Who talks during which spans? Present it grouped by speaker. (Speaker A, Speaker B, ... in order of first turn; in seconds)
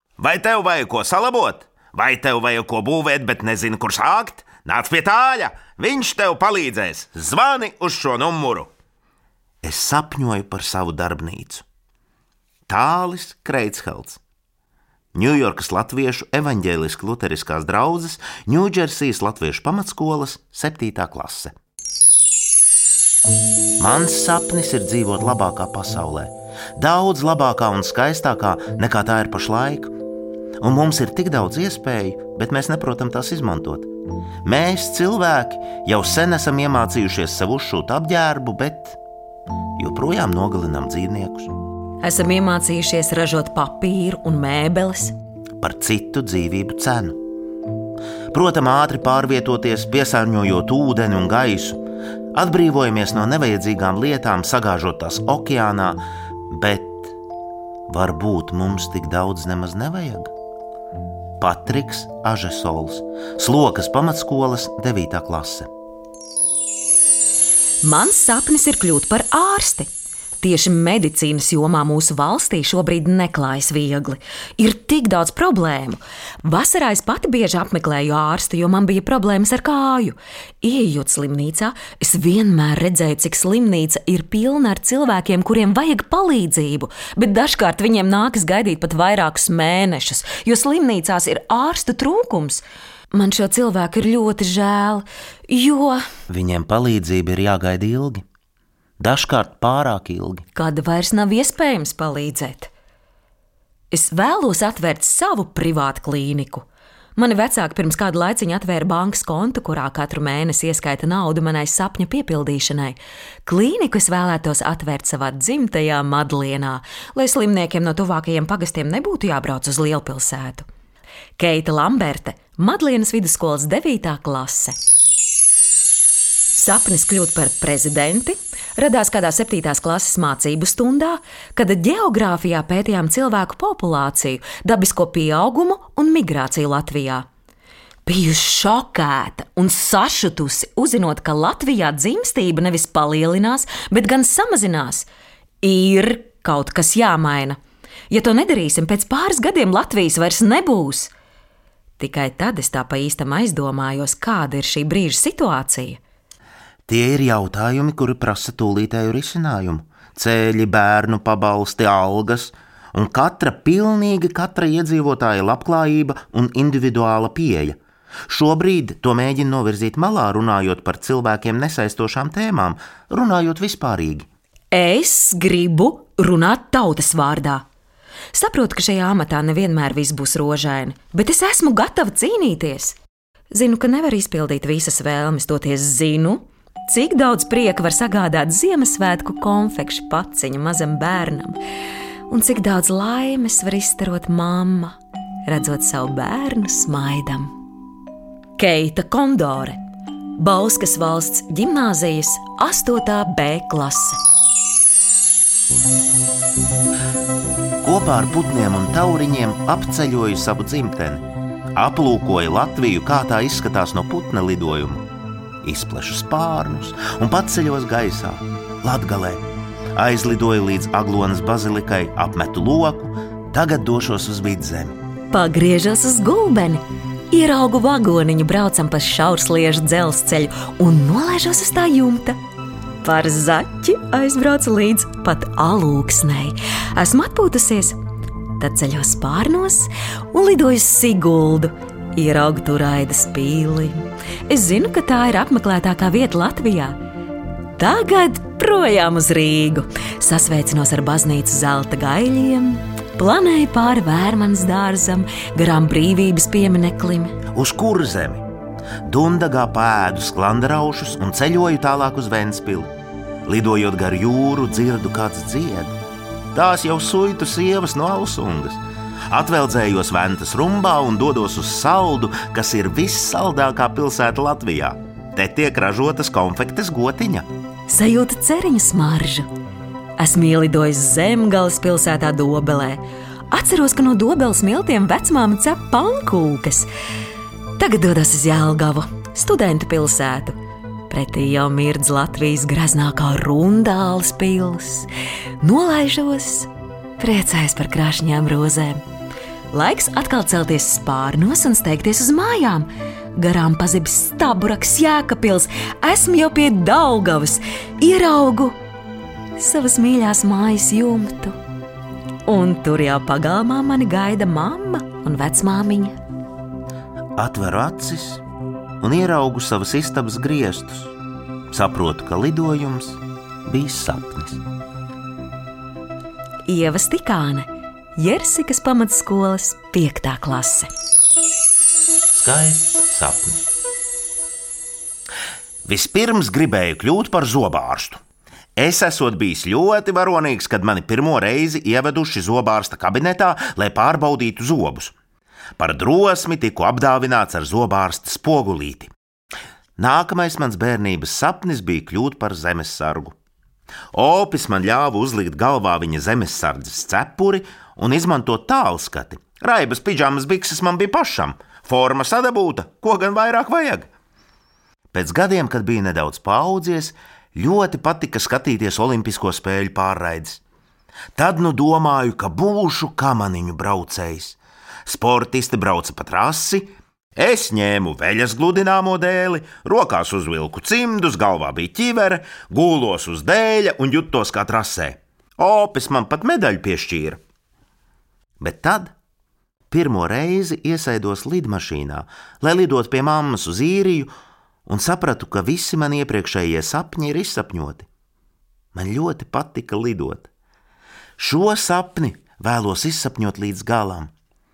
Speaker A: 0.2-8.7, 9.6-11.6, 12.7-14.2, 15.2-21.5, 23.8-29.9, 30.6-33.9, 34.5-39.0, 39.8-41.5, 45.6-47.2, 48.3-51.8, 52.3-57.1, 57.9-60.3, 61.4-65.7, 96.3-98.2, 99.0-100.5, 156.9-167.8, 168.3-174.3, 207.8-211.2, 211.8-215.0, 215.6-219.4, 220.0-225.0, 257.5-258.5, 259.1-262.9, 263.5-266.0, 266.5-277.5, 317.4-318.4, 319.0-321.1, 321.7-324.6, 332.3-333.7, 335.9-338.2, 338.8-345.1, 345.8-349.1, 350.0-353.4, 354.1-364.1, 365.1-370.6, 371.4-387.4, 388.6-389.1, 389.9-394.3, 394.9-398.1, 398.9-400.5, 401.4-404.3
Speaker B: 42.0-45.1, 67.8-69.9, 70.4-96.0, 100.5-102.7, 103.9-106.7, 107.2-120.7, 121.4-124.8, 126.5-137.3, 138.1-145.1, 145.6-147.6, 148.1-151.1, 152.0-156.0, 174.7-177.6, 178.3-183.0, 183.5-191.6, 192.3-194.9, 195.5-197.5, 198.6-199.8, 200.4-204.2, 225.3-232.4, 233.0-238.0, 238.6-247.0, 247.8-257.4, 277.9-279.5, 280.2-286.9, 287.8-290.6, 291.1-295.1, 295.6-299.0, 299.7-308.8, 309.6-311.6, 312.5-316.2, 326.7-330.9